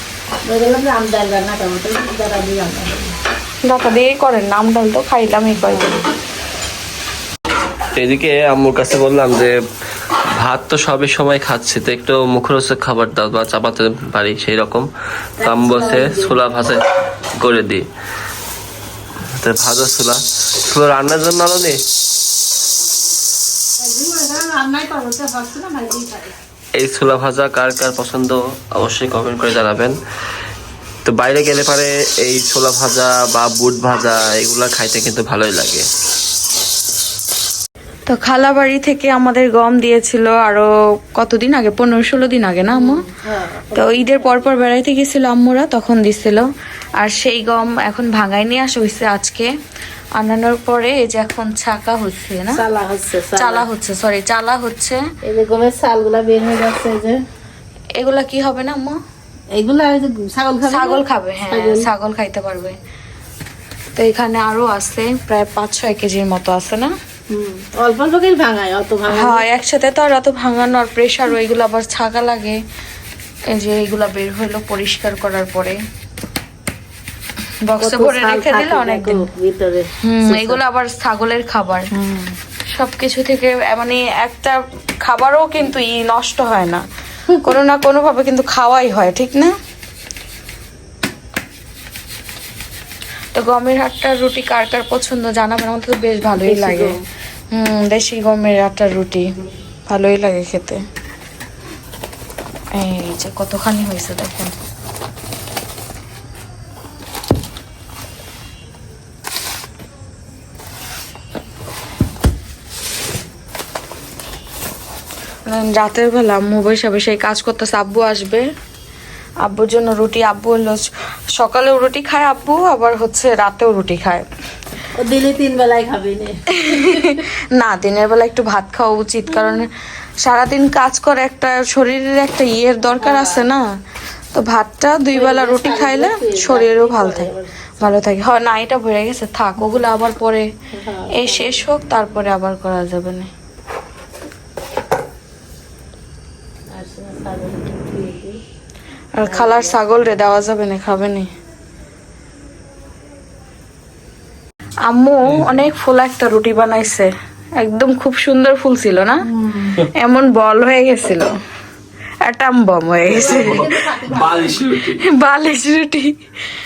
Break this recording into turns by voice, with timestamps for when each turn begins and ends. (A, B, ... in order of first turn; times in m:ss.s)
0:00.4-0:03.1 A
0:03.6-0:06.0 B
0:05.6-0:06.0 A
0:07.9-0:09.5 C
0:10.4-0:16.8 C
0:15.4-0:16.8 A
0:17.4-0:17.9 C
0:19.4-0:21.8 C
0:23.8-0:26.3 A
0:26.8-0:30.0 C
0:31.0-0:35.9 C
0:38.1-0:43.0 B
0:42.7-0:44.5 A
0:43.7-0:46.5 B
0:47.0-0:49.5 B
0:50.2-0:52.6 B
0:52.5-0:53.6 A
0:53.3-0:55.0 B
0:55.2-0:57.2 A
0:58.0-0:59.0 B
0:59.5-1:01.9 A
1:00.7-1:02.7 B
1:04.0-1:06.9 B
1:07.3-1:09.4 A
1:09.1-1:12.6 B
1:13.5-1:15.8 B
1:17.7-1:19.3 B
1:17.8-1:20.6 A
1:20.0-1:21.9 B
1:21.9-1:22.3 A
1:22.7-1:26.8 B
1:27.4-1:29.5 B
1:33.3-1:36.9 B
1:36.4-1:37.0 A
1:37.5-1:39.3 B
1:39.9-1:40.8 B
1:42.7-1:44.5 B
1:55.4-1:58.4 B
1:59.4-2:04.2 B
2:05.0-2:07.2 A
2:06.5-2:09.7 B
2:10.2-2:13.6 B
2:13.0-2:13.5 A
2:14.3-2:20.5 B
2:15.1-2:18.0 A
2:20.7-2:21.6 A
2:21.1-2:23.3 B
2:26.7-2:28.4 A
2:29.1-2:31.3 B
2:29.2-2:29.9 A
2:34.9-2:39.2 B
2:39.3-2:39.8 A
2:40.0-2:41.3 B
2:42.2-2:43.7 B
2:43.1-2:44.6 A
2:43.1-2:45.0 C
2:45.0-2:46.1 B